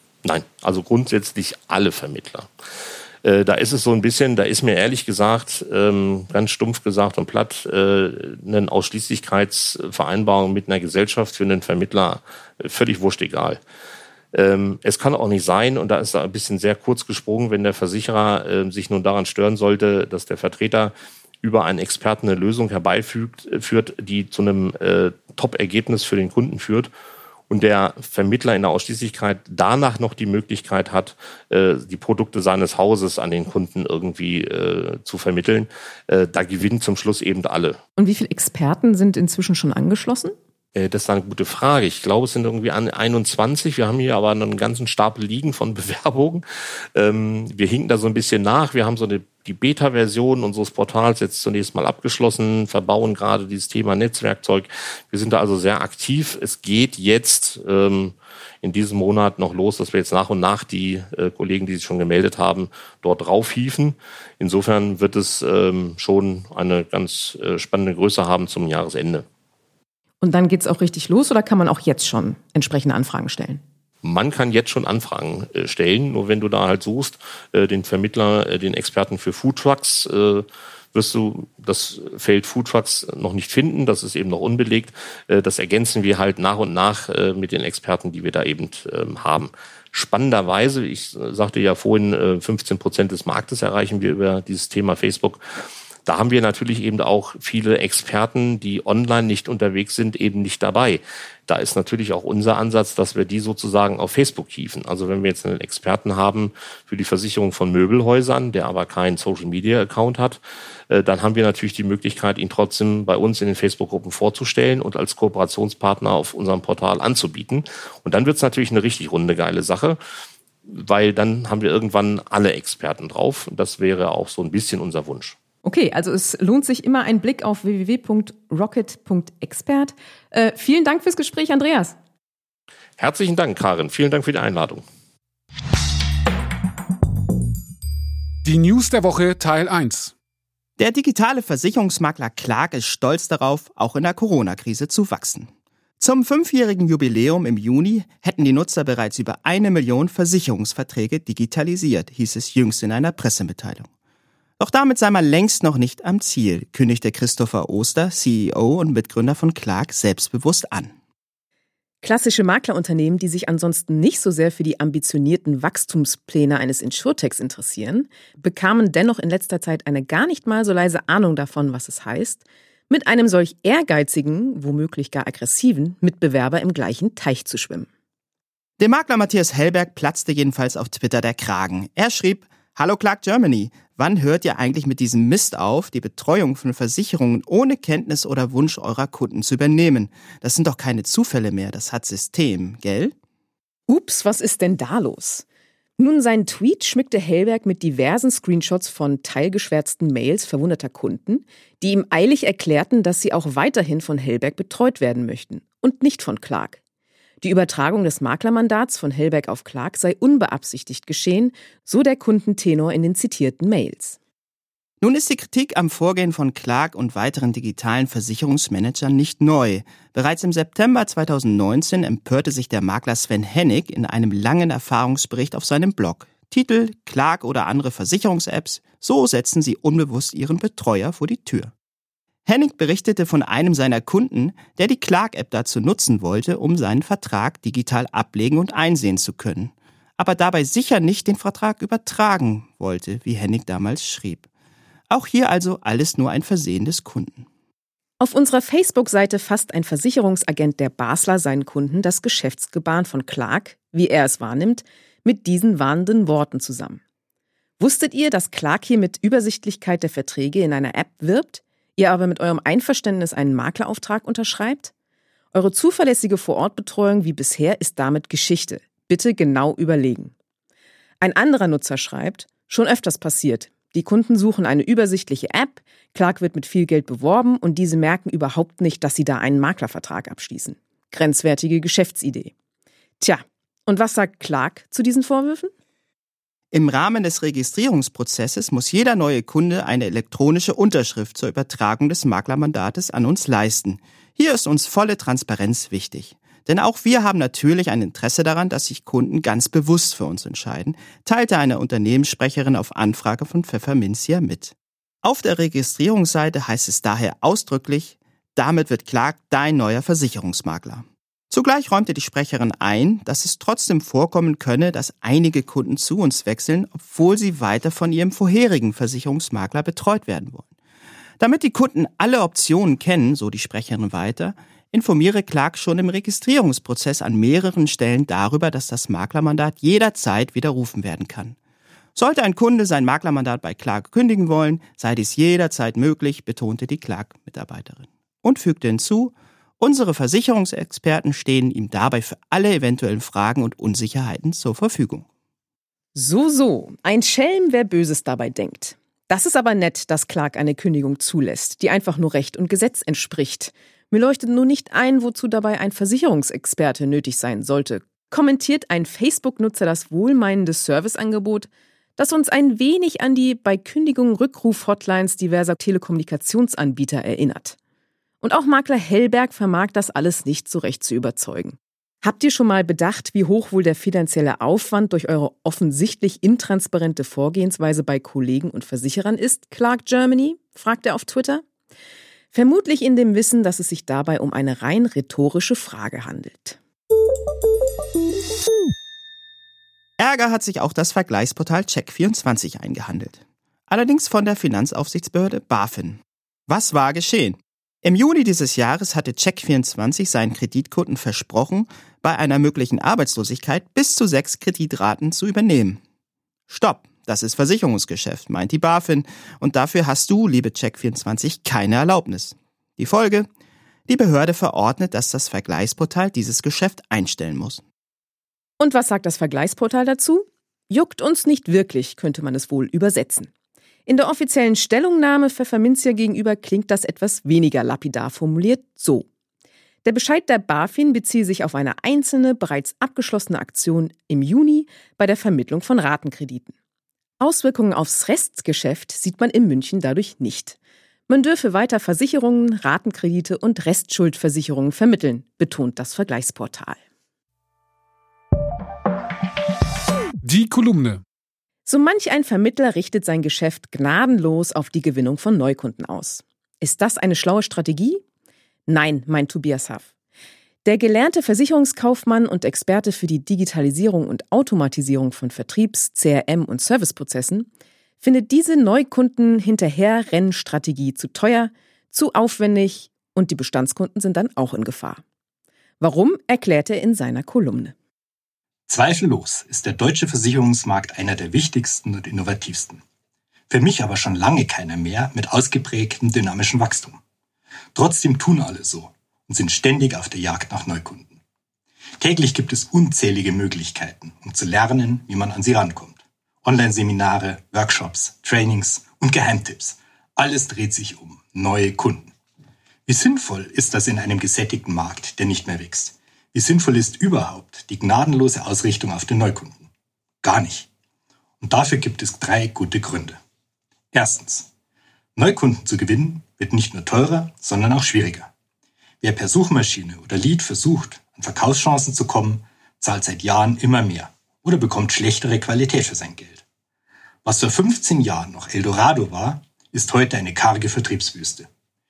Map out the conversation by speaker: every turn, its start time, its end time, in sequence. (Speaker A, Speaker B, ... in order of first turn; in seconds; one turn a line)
Speaker A: 0.2-2.5
Speaker A: 3.2-13.6
Speaker A: 14.3-26.9
Speaker A: 27.5-37.8
Speaker B: 38.0-40.4
Speaker A: 40.7-69.2
Speaker B: 70.2-73.6
Speaker A: 74.0-95.4
Speaker A: 96.0-120.0
Speaker A: 120.7-125.4
Speaker B: 125.6-131.9
Speaker A: 133.0-134.8
Speaker C: 138.4-140.1
Speaker D: 140.8-153.9
Speaker D: 154.6-160.9
Speaker B: 162.0-177.9
Speaker D: 178.8-193.1
Speaker B: 193.9-195.4
Speaker B: 196.0-206.8
Speaker B: 207.4-214.2
Speaker D: 215.0-231.7
Speaker D: 232.4-244.5
Speaker D: 245.1-247.4
Speaker B: 248.2-257.0
Speaker B: 257.8-264.9
Speaker B: 265.5-270.3
Speaker B: 271.2-282.5
Speaker B: 283.2-285.7
Speaker D: 286.7-320.7
Speaker D: 321.4-331.6
Speaker D: 332.1-345.3
Speaker B: 346.1-367.8
Speaker B: 368.4-381.6
Speaker B: 382.5-386.8
Speaker D: 390.2-406.0
Speaker D: 406.7-413.5
Speaker D: 414.1-417.8
Speaker B: 418.8-423.5
Speaker B: 424.1-429.2
Speaker B: 430.0-436.7
Speaker B: 437.4-440.8
Speaker B: 441.3-447.0
Speaker C: 450.4-451.2
Speaker B: 451.9-458.2
Speaker B: 458.9-460.1
Speaker B: 460.8-467.7
Speaker B: 468.2-475.2
Speaker B: 476.0-477.9
Speaker E: 478.9-483.0
Speaker E: 483.7-487.2
Speaker E: 487.9-491.4
Speaker E: 492.2-502.3
Speaker E: 503.1-509.9
Speaker E: 510.4-510.9
Speaker E: 511.6-513.4
Speaker E: 514.1-514.7
Speaker E: 515.4-518.5
Speaker E: 519.2-526.6
Speaker E: 527.4-531.7